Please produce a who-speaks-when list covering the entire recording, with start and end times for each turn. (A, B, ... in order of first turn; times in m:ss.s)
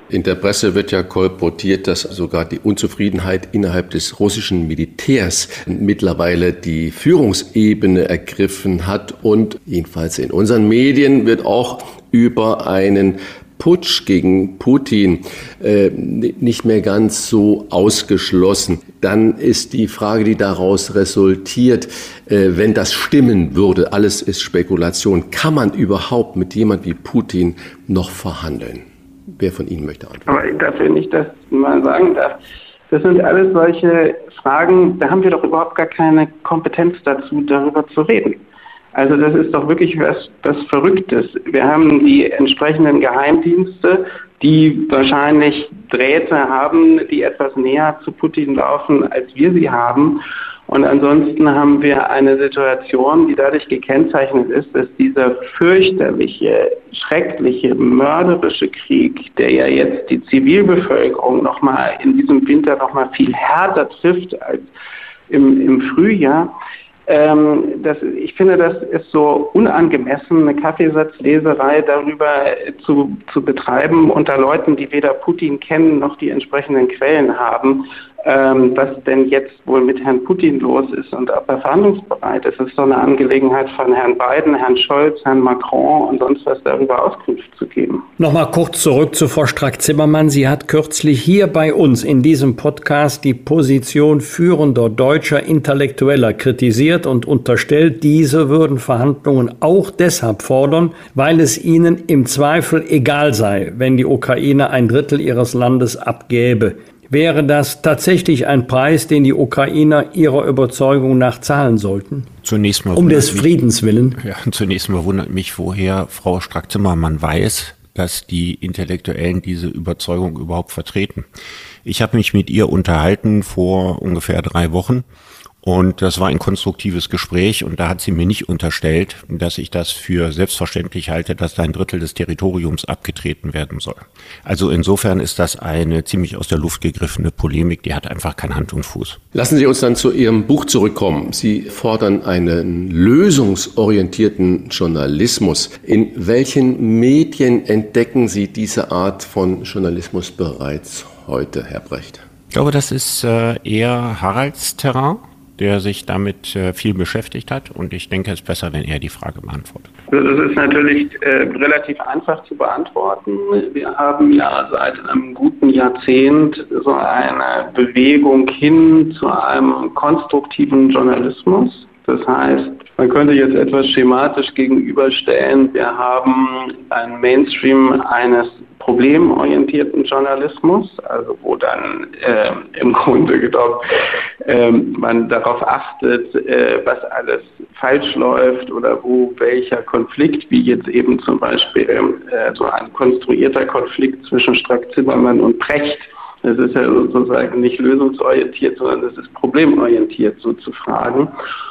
0:00.1-0:30.3 A
0:30.3-0:38.4 B
0:38.9-1:04.7 B
1:05.3-1:06.5 B
1:07.1-1:28.1 B
1:28.2-1:52.3 C
1:52.4-1:53.5 D
1:53.0-1:54.2 C
1:54.2-2:01.2 D
2:01.8-2:05.0 D
2:05.6-2:19.2 D
2:19.3-2:32.2 A
2:32.5-2:39.9 D
2:40.1-3:03.8 B
3:04.4-3:21.3 B